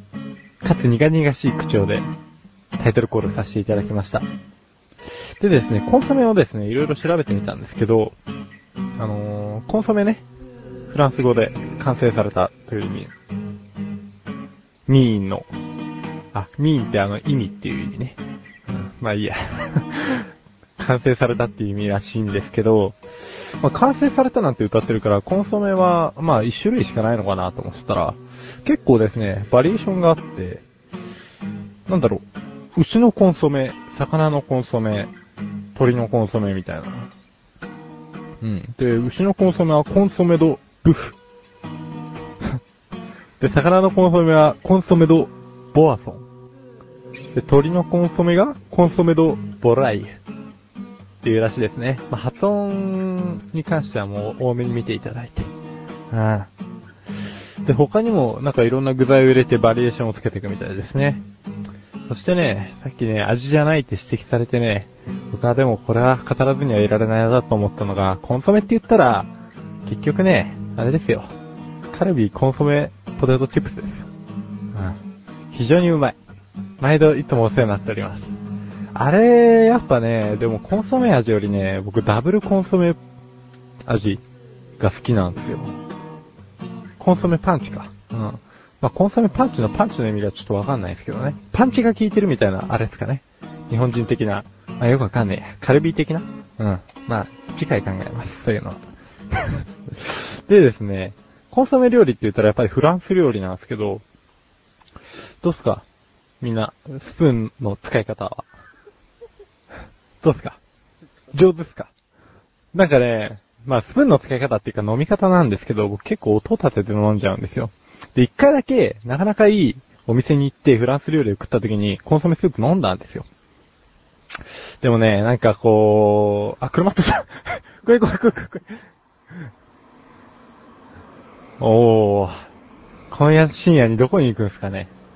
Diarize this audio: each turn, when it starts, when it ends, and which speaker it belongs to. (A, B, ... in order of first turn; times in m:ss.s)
0:00.6-0:02.0 A
0:02.8-0:04.2 A
0:05.4-0:08.2 A
0:09.0-0:10.2 A
0:10.9-0:13.1 A
0:14.9-0:15.5 A
0:16.3-0:30.6 A
0:31.9-0:35.1 A
0:35.7-0:37.1 A
0:38.4-0:41.2 A
0:43.4-0:46.2 A
0:47.3-0:50.1 A
0:51.2-0:55.5 A
0:56.1-0:56.5 A
0:57.6-1:01.2 A
1:02.1-1:09.3 A
1:09.8-1:11.3 A
1:11.9-1:14.0 A
1:14.7-1:15.0 A
1:15.5-1:16.2 A
1:16.8-1:18.2 A
1:18.9-1:23.0 A
1:23.8-1:24.2 A
1:24.8-1:25.7 A
1:27.0-1:38.8 A
1:39.3-1:44.0 A
1:45.4-1:45.8 A
1:46.4-1:48.4 A
1:50.2-1:50.6 A
1:51.3-1:51.9 A
1:52.7-2:03.2 A
2:04.8-2:08.8 A
2:11.6-2:12.4 A
2:13.1-2:14.9 A